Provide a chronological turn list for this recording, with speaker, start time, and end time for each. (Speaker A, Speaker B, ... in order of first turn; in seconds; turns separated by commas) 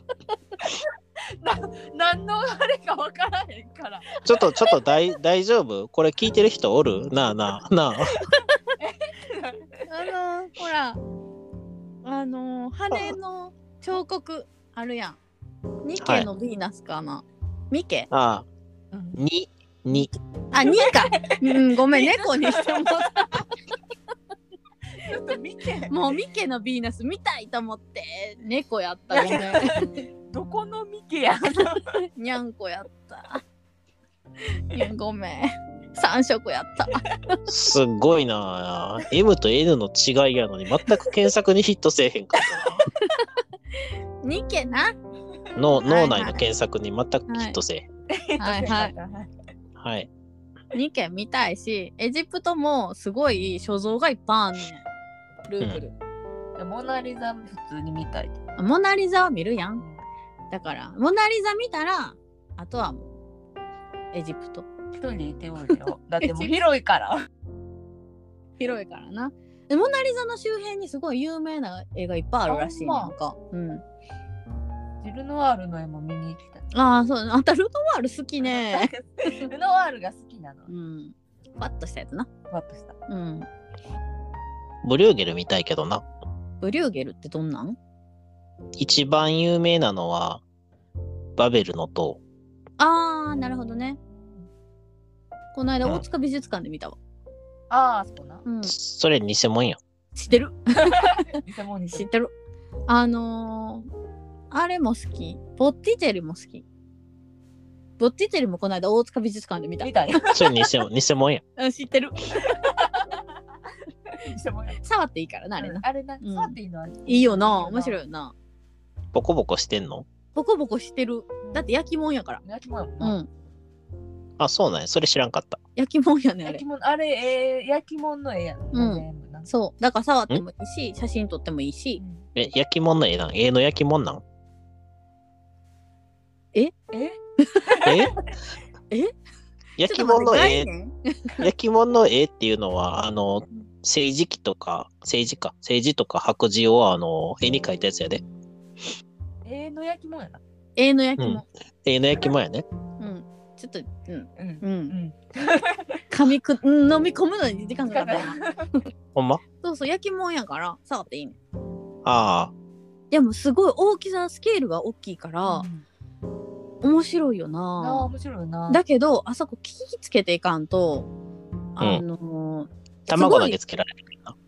Speaker A: 0.7-4.2, Speaker B: 4.2-8.2, Speaker A: 8.8-9.7, Speaker C: 9.9-11.0, Speaker C: 12.0-15.2, Speaker C: 15.8-18.1, Speaker B: 16.0-16.3, Speaker B: 18.1-18.5, Speaker A: 18.9-19.2, Speaker B: 19.2-20.1, Speaker C: 20.5-23.4, Speaker A: 20.6-23.3, Speaker A: 25.0-26.2, Speaker C: 25.9-29.9, Speaker A: 29.1-31.9, Speaker C: 31.8-33.4, Speaker C: 34.7-37.4, Speaker B: 37.5-42.9, Speaker C: 43.0-43.3, Speaker C: 44.2-44.9, Speaker B: 45.6-47.9, Speaker C: 45.8-46.4, Speaker C: 47.3-47.6, Speaker A: 48.1-49.3, Speaker C: 48.4-48.9, Speaker B: 49.8-50.1, Speaker C: 50.7-54.9, Speaker C: 55.5-55.9, Speaker A: 56.6-58.4, Speaker C: 58.6-59.8, Speaker C: 60.5-63.1, Speaker C: 64.1-64.7, Speaker A: 65.0-67.3, Speaker C: 66.2-66.5, Speaker C: 68.6-73.8, Speaker A: 72.5-73.1, Speaker A: 75.0-76.7, Speaker C: 76.7-79.5, Speaker A: 78.4-80.7, Speaker C: 80.7-82.3, Speaker A: 82.5-83.0, Speaker C: 83.1-83.5, Speaker B: 84.8-86.0, Speaker C: 86.6-87.8, Speaker B: 88.8-90.4, Speaker B: 91.4-92.2, Speaker C: 92.8-94.0, Speaker A: 93.4-94.5, Speaker C: 95.5-97.0, Speaker A: 97.7-98.4, Speaker C: 98.5-98.7, Speaker B: 98.7-99.8, Speaker C: 100.2-101.4, Speaker A: 100.9-102.1, Speaker C: 102.0-102.3, Speaker C: 102.9-103.9, Speaker C: 104.5-106.7, Speaker C: 108.0-110.5, Speaker A: 109.8-110.7, Speaker B: 110.3-111.4, Speaker C: 111.6-112.9, Speaker A: 112.3-113.2, Speaker A: 114.1-114.8, Speaker C: 114.8-118.3, Speaker A: 115.6-118.0, Speaker B: 119.1-120.1, Speaker C: 120.3-122.4, Speaker A: 121.4-121.7, Speaker A: 122.4-123.2, Speaker C: 123.0-123.3, Speaker B: 124.4-125.6, Speaker C: 125.8-126.6, Speaker A: 126.5-129.5, Speaker C: 128.7-132.0, Speaker A: 132.0-132.3, Speaker B: 132.4-134.2, Speaker A: 136.9-138.0, Speaker C: 137.4-137.9, Speaker B: 137.8-138.2, Speaker B: 139.8-140.7, Speaker C: 139.8-141.4, Speaker B: 141.4-148.2, Speaker A: 149.4-150.4, Speaker C: 150.8-151.4, Speaker B: 151.2-152.7, Speaker C: 153.0-155.0, Speaker A: 154.4-156.0, Speaker C: 156.1-158.4, Speaker A: 157.9-158.7, Speaker B: 159.2-159.4, Speaker C: 159.6-161.4, Speaker B: 162.1-162.5, Speaker C: 163.1-165.7, Speaker A: 165.4-165.8, Speaker C: 166.8-168.1, Speaker A: 167.8-168.8, Speaker C: 168.7-171.1, Speaker C: 171.8-173.6, Speaker B: 173.1-174.4